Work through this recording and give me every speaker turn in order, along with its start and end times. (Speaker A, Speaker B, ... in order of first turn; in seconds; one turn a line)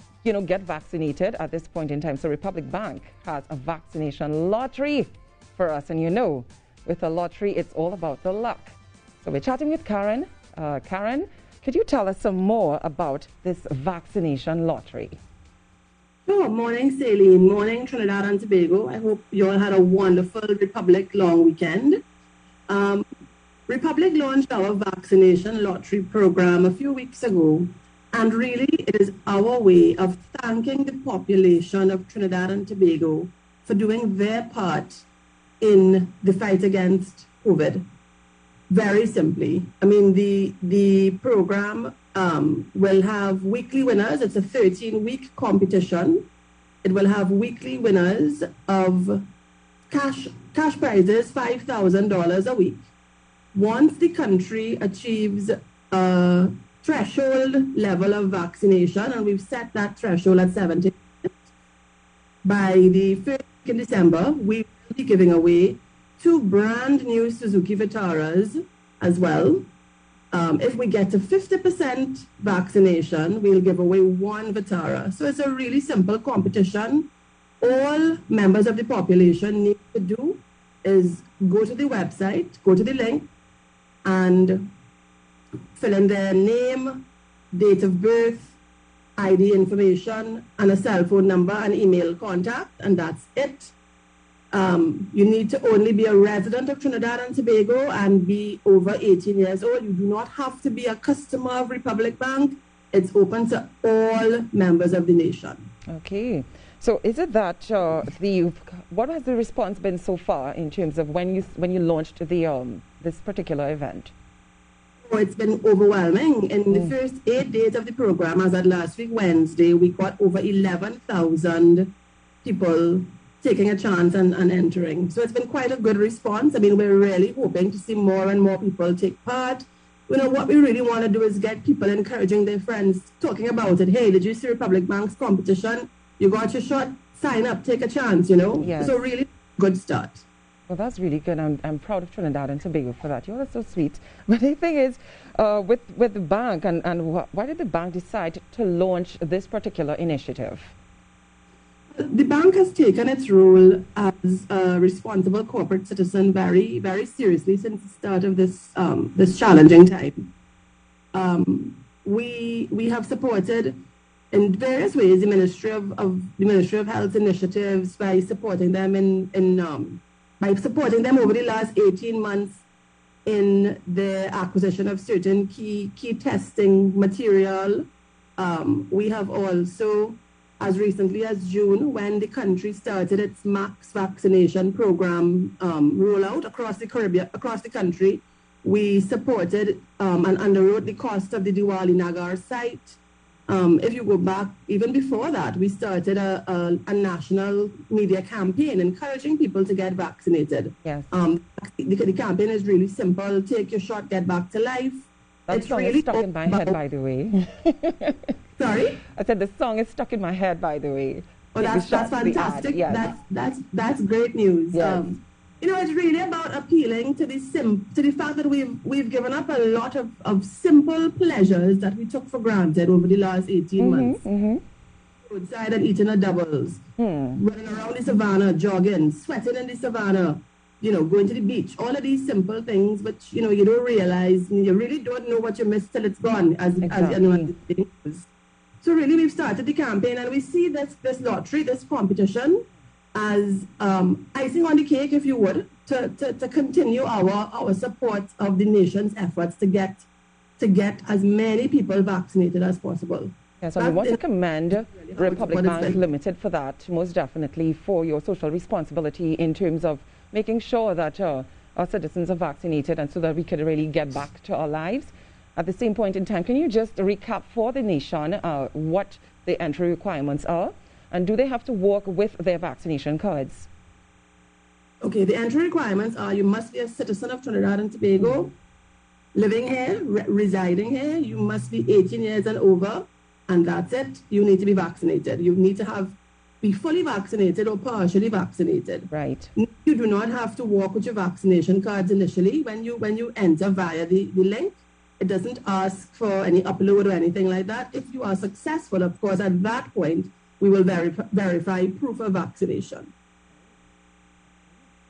Speaker A: 0.2-15.2
Speaker B: 16.2-22.0
Speaker B: 22.7-23.0
Speaker B: 23.7-35.0
Speaker B: 35.6-37.8
Speaker B: 38.7-46.3
Speaker B: 46.8-49.2
Speaker B: 49.9-52.9
Speaker B: 53.5-61.4
Speaker B: 62.4-69.7
Speaker B: 70.3-77.1
Speaker B: 77.6-83.3
Speaker B: 84.0-84.7
Speaker B: 85.7-88.5
Speaker B: 89.2-93.7
Speaker B: 94.5-105.7
Speaker A: 105.9-114.1
Speaker B: 115.0-140.2
Speaker A: 138.6-139.0
Speaker A: 140.7-150.7
Speaker B: 151.9-160.3
Speaker B: 161.1-172.6
Speaker B: 173.2-206.8
Speaker A: 205.5-208.3
Speaker B: 208.6-209.0
Speaker A: 209.1-213.1
Speaker B: 211.5-224.2
Speaker A: 214.7-215.1
Speaker A: 223.8-224.6
Speaker B: 225.2-226.8
Speaker A: 227.0-227.4
Speaker B: 227.3-238.3
Speaker A: 236.8-237.5
Speaker B: 238.8-250.1
Speaker B: 250.6-254.2
Speaker A: 253.6-273.7
Speaker B: 254.8-256.0
Speaker B: 275.0-278.5
Speaker B: 279.3-303.1
Speaker A: 289.1-289.5